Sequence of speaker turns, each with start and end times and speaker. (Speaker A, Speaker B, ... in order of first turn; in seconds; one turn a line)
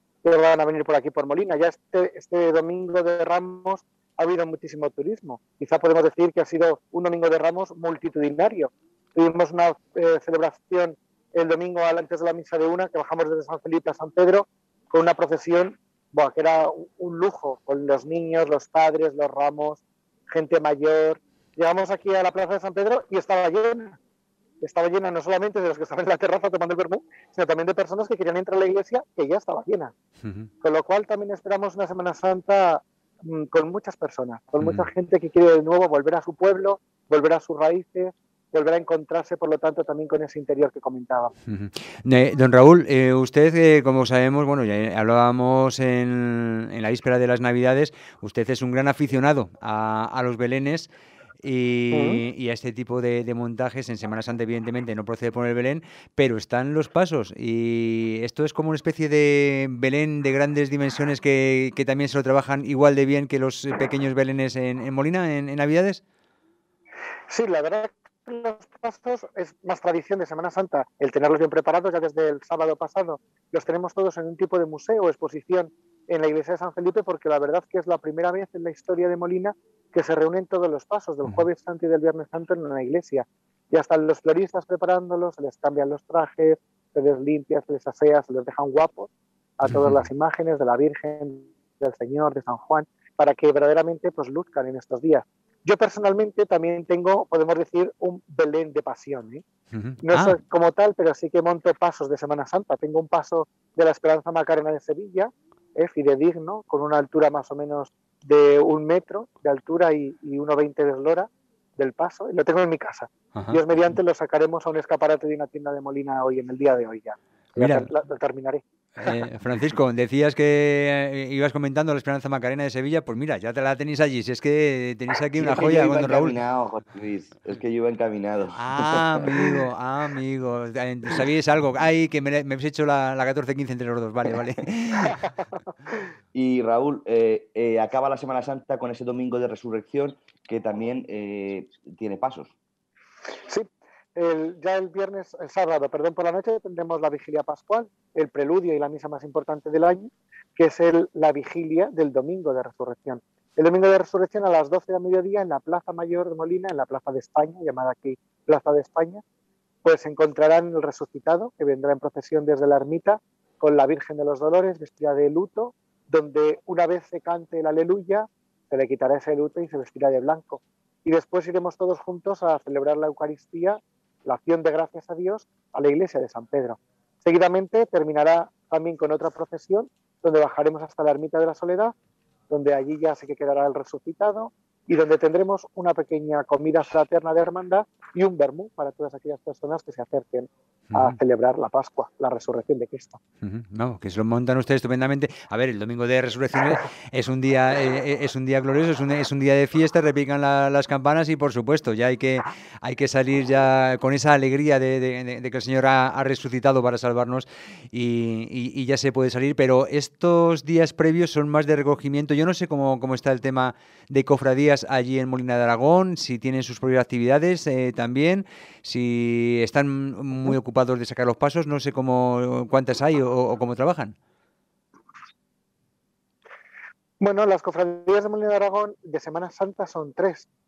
Speaker A: 0.2-24.0
Speaker A: 24.6-29.9
Speaker B: 30.2-30.5
Speaker A: 30.6-41.3
Speaker B: 34.6-34.9
Speaker B: 41.5-50.9
Speaker B: 51.4-66.0
Speaker A: 51.9-52.2
Speaker A: 67.3-99.4
Speaker B: 89.6-90.0
Speaker B: 99.7-100.4
Speaker A: 100.0-119.2
Speaker B: 113.3-113.7
Speaker B: 117.5-117.9
Speaker B: 119.0-126.3
Speaker C: 125.3-129.5
Speaker B: 128.5-135.4
Speaker C: 136.3-142.5
Speaker A: 143.5-159.2
Speaker A: 159.8-181.9
Speaker A: 182.5-193.2
Speaker B: 190.9-191.2
Speaker B: 193.4-224.1
Speaker A: 227.2-230.5